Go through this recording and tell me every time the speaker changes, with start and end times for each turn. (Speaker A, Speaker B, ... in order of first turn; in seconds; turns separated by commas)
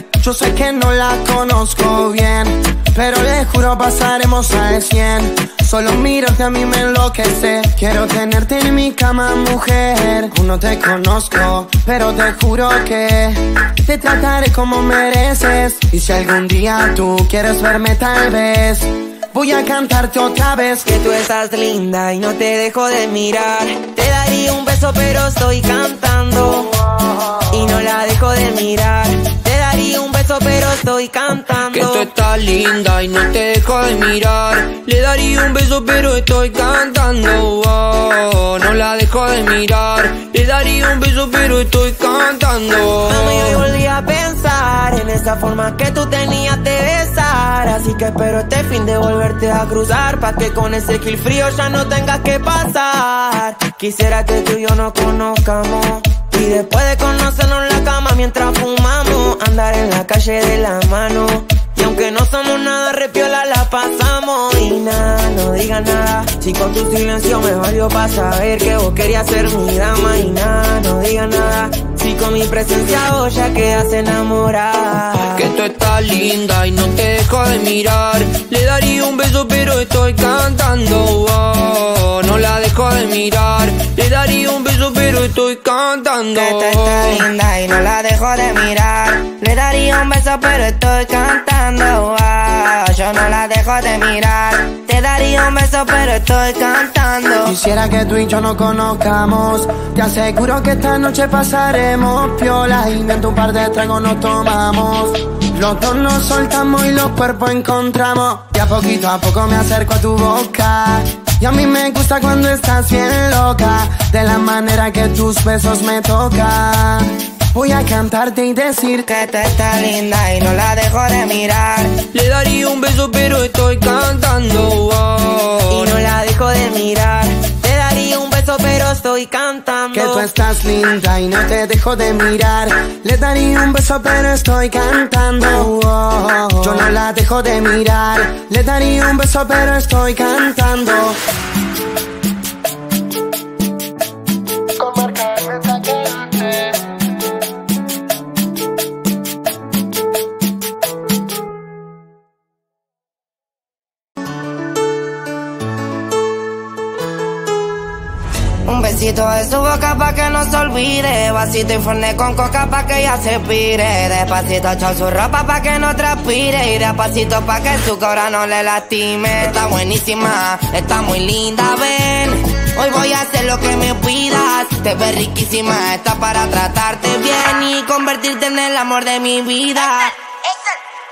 Speaker A: 0.2-20.9, Speaker B: 20.9-26.8, Speaker B: 27.5-32.1, Speaker C: 31.7-43.6, Speaker B: 43.1-75.5, Speaker C: 75.4-87.2, Speaker D: 86.3-97.5, Speaker A: 97.5-119.1, Speaker D: 119.1-122.0, Speaker C: 122.1-125.9, Speaker B: 125.7-130.3, Speaker A: 129.9-141.2, Speaker D: 158.7-180.2